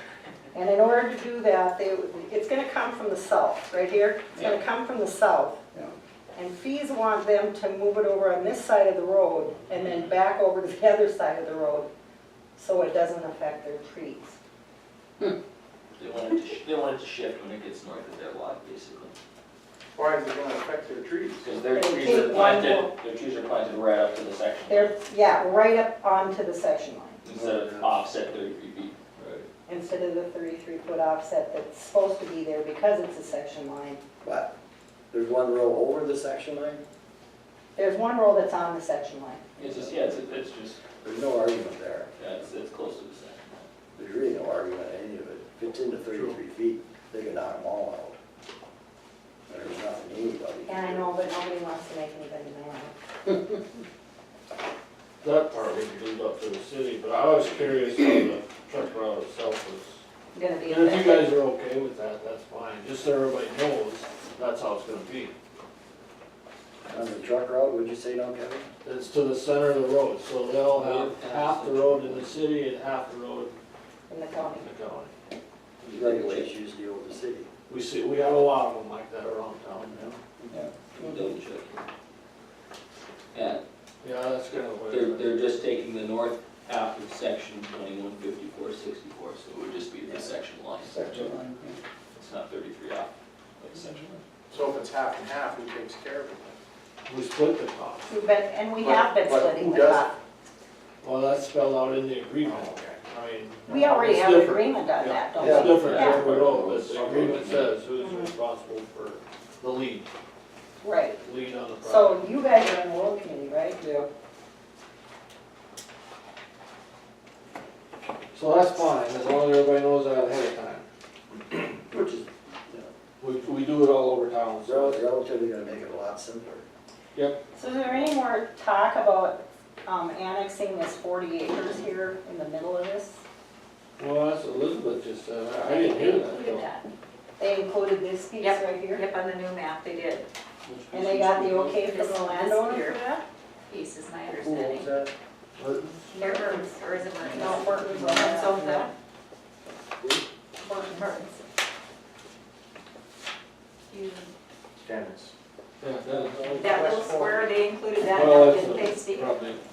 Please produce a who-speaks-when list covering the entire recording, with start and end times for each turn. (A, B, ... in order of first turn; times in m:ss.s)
0:00.5-0:05.6 A
0:06.3-0:11.9 A
0:12.6-0:14.4 A
0:15.9-0:19.1 B
0:20.0-0:21.5 C
0:21.4-0:24.9 B
0:21.7-0:22.9 A
0:24.7-0:27.2 A
0:27.2-0:29.4 B
0:27.3-0:28.0 D
0:29.6-0:34.0 A
0:34.2-0:34.5 D
0:35.1-0:36.8 D
0:37.8-0:39.6 A
0:39.6-0:40.8 B
0:41.0-0:42.1 D
0:42.2-0:43.6 B
0:44.0-0:48.2 D
0:46.1-0:46.4 E
0:49.5-0:51.1 D
0:50.6-0:52.9 A
0:55.2-1:00.0 E
1:00.3-1:01.3 A
1:00.6-1:05.3 E
1:06.9-1:08.7 D
1:08.8-1:13.5 E
1:10.7-1:12.3 B
1:14.1-1:14.7 A
1:14.6-1:15.1 E
1:15.8-1:16.5 B
1:15.9-1:17.5 D
1:17.7-1:20.2 E
1:20.0-1:20.5 D
1:20.5-1:21.2 F
1:21.0-1:21.8 B
1:23.3-1:23.6 B
1:24.0-1:25.4 E
1:24.9-1:31.3 B
1:30.8-1:31.8 F
1:32.1-1:34.2 B
1:34.5-1:36.6 C
1:37.1-1:38.1 E
1:38.0-1:40.1 A
1:38.8-1:40.1 C
1:41.0-1:50.1 E
1:42.4-1:43.0 C
1:43.7-1:46.2 A
1:45.4-1:45.9 F
1:45.7-1:47.7 B
1:48.0-1:48.3 A
1:50.8-1:51.2 A
1:51.2-1:52.2 E
1:51.8-1:53.8 A
1:53.8-1:54.1 F
1:58.3-2:00.8 E
2:01.5-2:02.9 D
2:03.2-2:05.0 E
2:04.6-2:06.6 D
2:07.5-2:13.2 A
2:14.0-2:16.6 E
2:15.6-2:16.9 G
2:17.4-2:19.0 A
2:18.4-2:20.3 G
2:20.7-2:21.8 E
2:20.9-2:23.2 A
2:21.8-2:23.0 G
2:23.7-2:24.9 G
2:24.4-2:25.1 D
2:25.6-2:26.1 E
2:26.1-2:28.9 G
2:26.2-2:26.6 A
2:27.2-2:28.8 F
2:27.3-2:28.8 A
2:30.6-2:31.4 A
2:33.9-2:34.3 G
2:34.8-2:35.3 C
2:35.8-2:36.9 E
2:36.0-2:37.4 F
2:36.6-2:39.4 G
2:38.1-2:39.6 E